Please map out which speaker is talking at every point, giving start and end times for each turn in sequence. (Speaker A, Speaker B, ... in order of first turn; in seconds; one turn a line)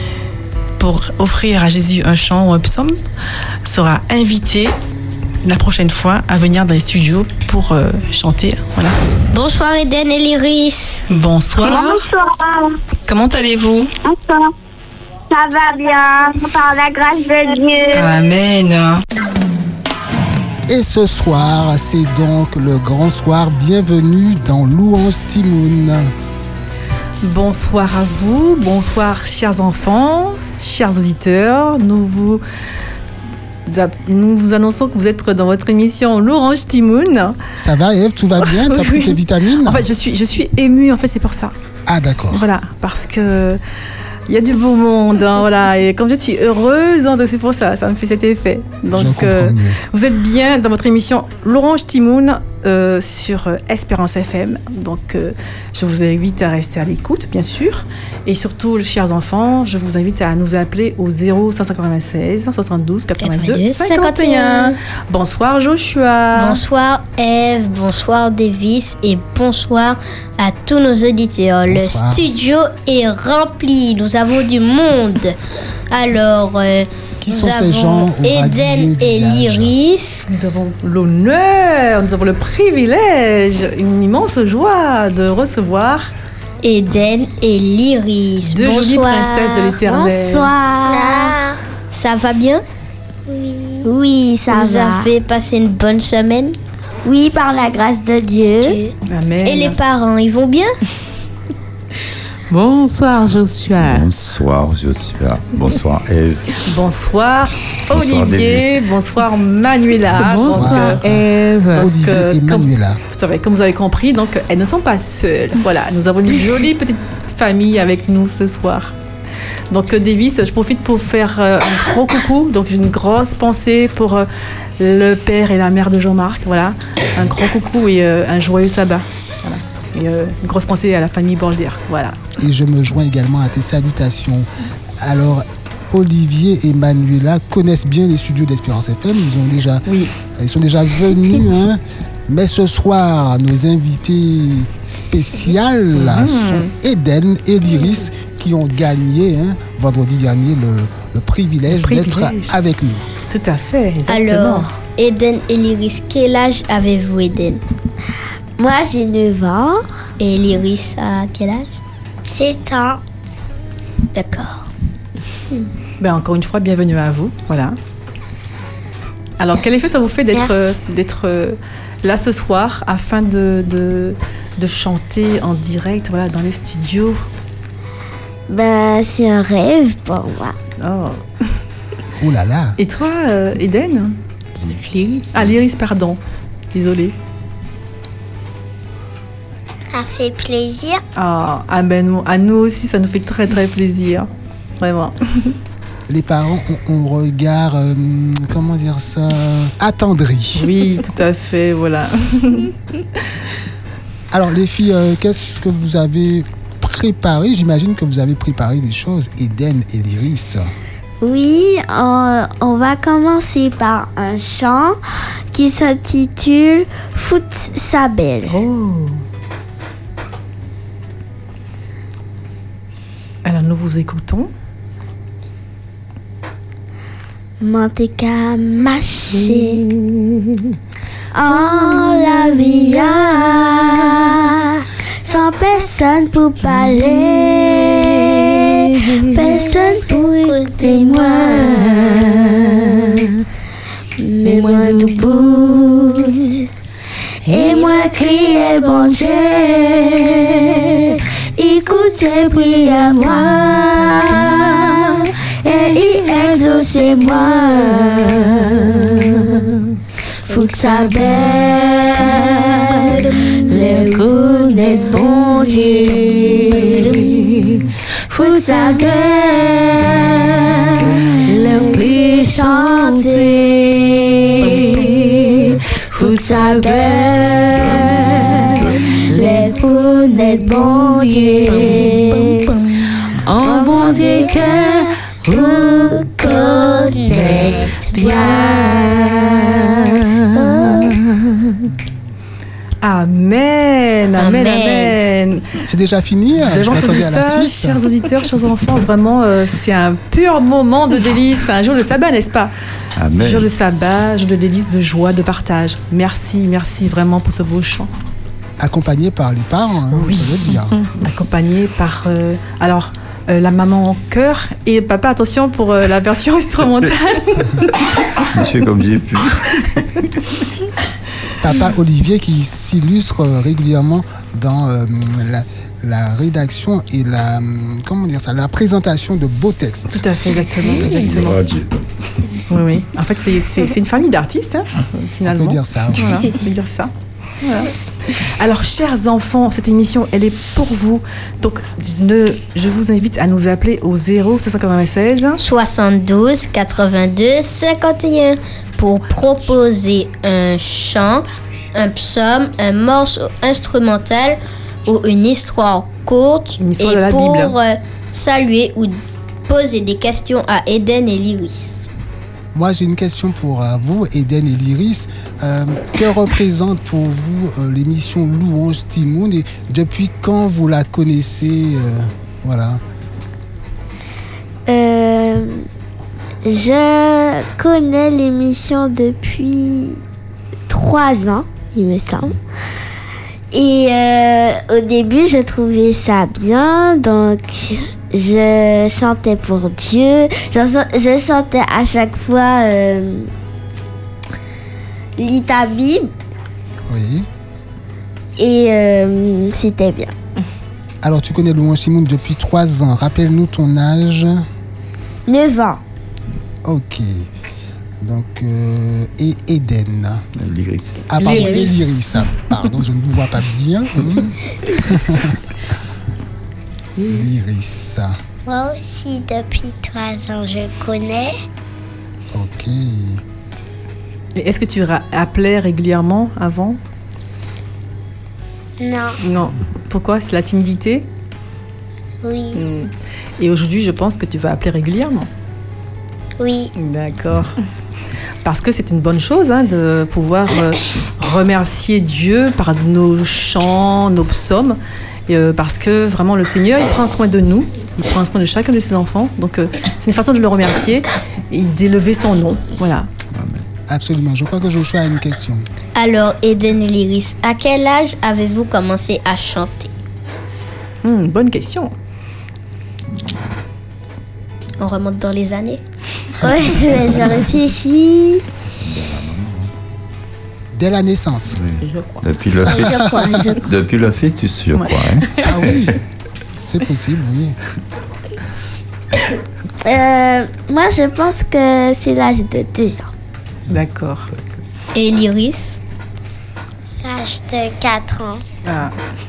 Speaker A: 0.8-3.0
Speaker A: 3.6-4.7
Speaker A: 5.5-9.0
Speaker B: 9.3-11.0
Speaker A: 11.1-12.1
Speaker C: 11.6-12.6
Speaker A: 13.1-13.9
Speaker C: 14.1-14.5
Speaker C: 15.3-18.1
Speaker A: 17.9-19.0
Speaker D: 20.7-26.1
Speaker A: 27.2-32.4
Speaker A: 33.7-37.4
Speaker D: 37.6-39.9
Speaker A: 38.4-41.5
Speaker D: 41.9-42.5
Speaker A: 42.3-43.6
Speaker A: 44.3-66.6
Speaker D: 48.9-49.8
Speaker B: 63.2-64.8
Speaker B: 66.4-75.4
Speaker D: 71.7-72.3
Speaker B: 75.9-80.3
Speaker D: 77.2-79.7
Speaker A: 80.3-86.1
Speaker B: 86.6-89.8
Speaker A: 88.4-90.5
Speaker E: 89.8-91.5
Speaker B: 91.9-92.6
Speaker E: 93.8-95.1
Speaker B: 94.5-96.6
Speaker E: 97.0-98.9
Speaker A: 99.1-99.8
Speaker B: 99.5-100.7
Speaker F: 102.5-104.1
Speaker G: 103.8-106.6
Speaker A: 106.6-111.0
Speaker G: 107.9-108.9
Speaker F: 110.2-111.9
Speaker D: 110.3-113.0
Speaker A: 111.8-119.0
Speaker A: 119.7-124.3
Speaker A: 124.8-132.2
Speaker D: 132.4-134.5
Speaker D: 135.0-139.9
Speaker A: 139.9-140.1
Speaker D: 140.4-153.1
Speaker A: 146.0-146.7
Speaker A: 151.7-152.6
Speaker A: 153.3-154.7
Speaker B: 154.1-157.6
Speaker E: 158.6-159.8
Speaker B: 160.2-161.8
Speaker E: 162.3-163.0
Speaker B: 164.1-164.7
Speaker A: 166.0-167.8
Speaker A: 169.4-177.2
Speaker E: 170.3-170.7
Speaker E: 178.5-180.6
Speaker A: 180.8-181.5
Speaker D: 182.2-182.8
Speaker A: 182.8-184.2
Speaker F: 184.8-185.2
Speaker A: 185.3-186.2
Speaker A: 186.7-187.1
Speaker E: 189.9-191.0
Speaker A: 191.2-194.3
Speaker A: 194.8-195.6
Speaker D: 196.1-200.7
Speaker A: 200.6-202.7
Speaker D: 204.3-210.7
Speaker E: 211.2-215.0
Speaker E: 215.5-218.6
Speaker A: 218.5-219.2
Speaker A: 223.4-224.5
Speaker E: 227.6-229.9
Speaker E: 231.3-243.3
Speaker E: 244.2-246.7
Speaker F: 244.6-244.9
Speaker E: 247.5-259.8
Speaker E: 260.5-282.9
Speaker F: 263.9-264.4
Speaker F: 267.1-267.8
Speaker F: 271.5-273.5
Speaker F: 274.7-275.4
Speaker F: 276.2-276.4
Speaker F: 281.0-282.2
Speaker F: 283.4-284.8
Speaker E: 283.6-289.6
Speaker F: 285.5-286.3
Speaker F: 287.3-289.2
Speaker E: 290.6-291.2
Speaker F: 290.8-291.1
Speaker A: 293.0-295.6
Speaker B: 294.4-295.2
Speaker D: 295.9-298.0
Speaker A: 296.6-302.7
Speaker G: 303.2-303.7
Speaker A: 303.4-308.1
Speaker D: 308.8-311.0
Speaker A: 310.1-317.9
Speaker G: 318.5-320.1
Speaker D: 321.6-330.2
Speaker A: 330.1-331.6
Speaker G: 331.0-332.6
Speaker A: 332.7-345.6
Speaker D: 335.4-336.4
Speaker B: 345.6-362.1
Speaker A: 356.8-357.8
Speaker D: 362.7-373.0
Speaker E: 374.9-375.9
Speaker E: 376.6-380.2
Speaker E: 380.9-382.6
Speaker E: 383.7-393.5
Speaker E: 395.4-396.3
Speaker D: 397.1-397.5
Speaker E: 398.6-400.3
Speaker D: 401.2-404.6
Speaker E: 405.5-406.0
Speaker D: 406.9-407.5
Speaker D: 408.2-410.4
Speaker G: 410.6-411.6
Speaker D: 411.3-415.6
Speaker F: 411.4-412.1
Speaker D: 417.2-418.4
Speaker E: 418.7-421.6
Speaker D: 422.5-423.4
Speaker A: 424.6-427.0
Speaker E: 429.0-429.3
Speaker A: 429.4-431.3
Speaker E: 432.4-432.8
Speaker A: 432.8-435.5
Speaker E: 436.6-436.9
Speaker A: 437.0-437.8
Speaker A: 438.6-453.3
Speaker G: 453.6-453.8
Speaker D: 454.1-455.9
Speaker B: 456.1-460.1
Speaker A: 461.2-462.1
Speaker B: 465.0-466.0
Speaker E: 466.6-468.6
Speaker G: 469.0-469.9
Speaker D: 470.9-471.8
Speaker G: 471.8-473.2
Speaker F: 472.0-472.4
Speaker E: 472.9-473.9
Speaker D: 472.9-473.6
Speaker G: 473.7-476.1
Speaker D: 475.6-476.2
Speaker D: 476.8-477.8
Speaker E: 480.0-483.3
Speaker A: 483.9-484.5
Speaker B: 485.1-486.0
Speaker E: 487.2-488.6
Speaker A: 488.9-489.1